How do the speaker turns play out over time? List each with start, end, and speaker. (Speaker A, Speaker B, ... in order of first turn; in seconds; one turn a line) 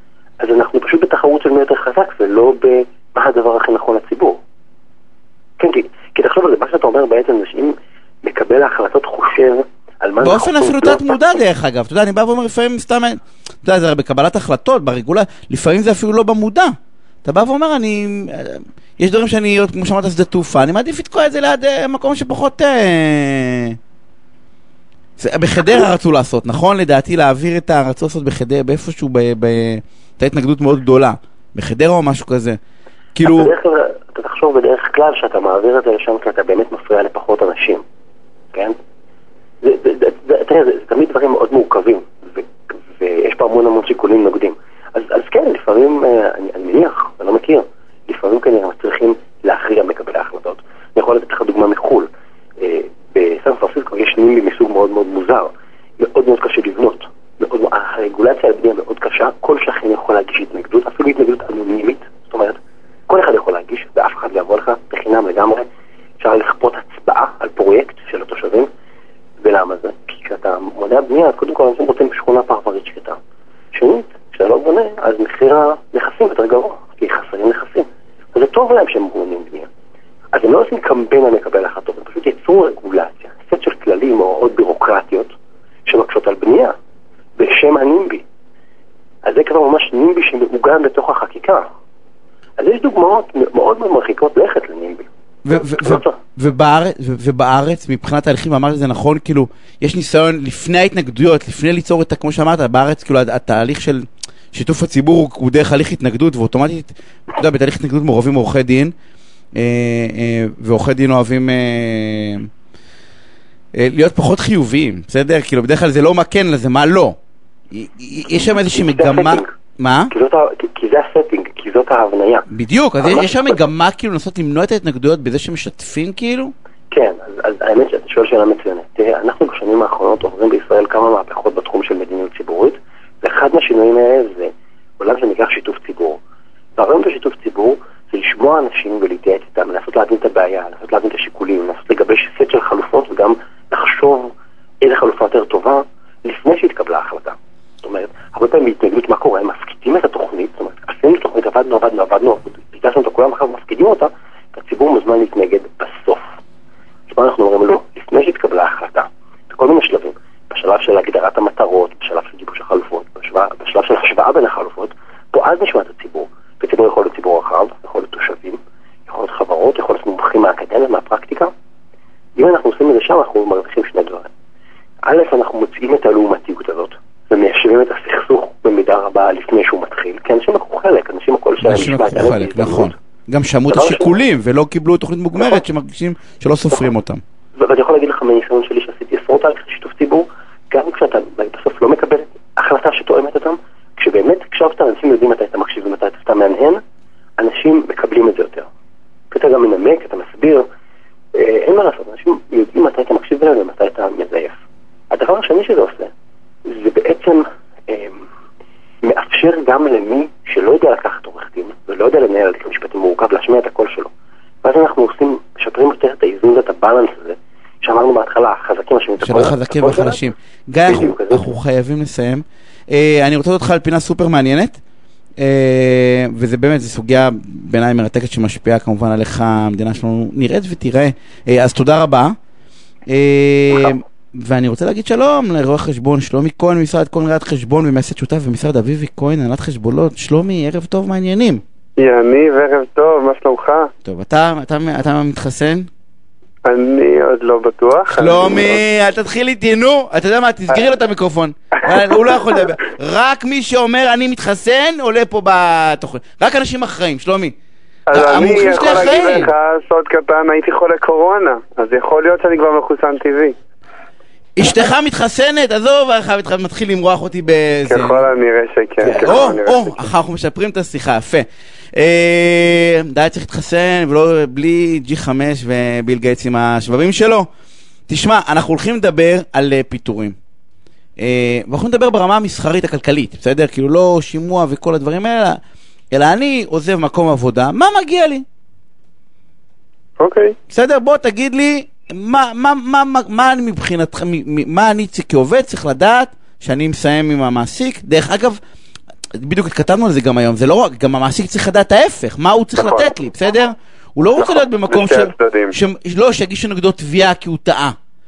Speaker A: 0.4-4.4
Speaker A: 5.6-11.1
Speaker B: 10.2-23.8
Speaker B: 25.2-32.6
Speaker B: 33.2-33.5
Speaker A: 33.2-37.8
Speaker A: 39.6-42.5
Speaker A: 43.0-65.7
Speaker A: 66.2-68.7
Speaker A: 69.4-73.2
Speaker A: 73.7-79.7
Speaker A: 80.3-85.3
Speaker A: 85.9-86.8
Speaker A: 87.4-88.2
Speaker A: 89.2-91.7
Speaker A: 92.6-95.1
Speaker B: 95.5-108.9
Speaker A: 95.7-96.2
Speaker B: 109.5-112.5
Speaker B: 113.8-117.2
Speaker B: 117.7-120.1
Speaker A: 118.6-119.5
Speaker A: 120.1-122.5
Speaker B: 122.5-126.5
Speaker A: 123.0-123.6
Speaker A: 126.9-136.2
Speaker A: 136.8-156.3
Speaker A: 157.1-171.5
Speaker A: 172.4-174.3
Speaker A: 175.0-182.9
Speaker B: 181.6-187.2
Speaker A: 183.7-184.1
Speaker A: 187.6-196.8
Speaker A: 197.4-198.7
Speaker A: 199.3-200.7
Speaker A: 201.3-204.6
Speaker A: 205.1-206.1
Speaker A: 206.7-208.2
Speaker A: 209.0-214.1
Speaker A: 214.6-220.2
Speaker B: 219.2-224.8
Speaker A: 220.9-221.4
Speaker B: 225.4-232.4
Speaker B: 233.1-241.6
Speaker C: 242.0-243.9
Speaker B: 244.0-245.9
Speaker C: 246.7-248.8
Speaker B: 248.1-257.6
Speaker C: 258.1-263.6
Speaker B: 258.1-259.5
Speaker B: 264.6-268.2
Speaker C: 267.9-270.1
Speaker B: 269.0-277.5
Speaker B: 278.1-280.4
Speaker B: 281.2-285.6
Speaker B: 286.1-288.4
Speaker C: 290.2-290.6
Speaker B: 290.7-298.6
Speaker B: 299.4-307.9
Speaker C: 302.8-303.1
Speaker C: 304.4-305.8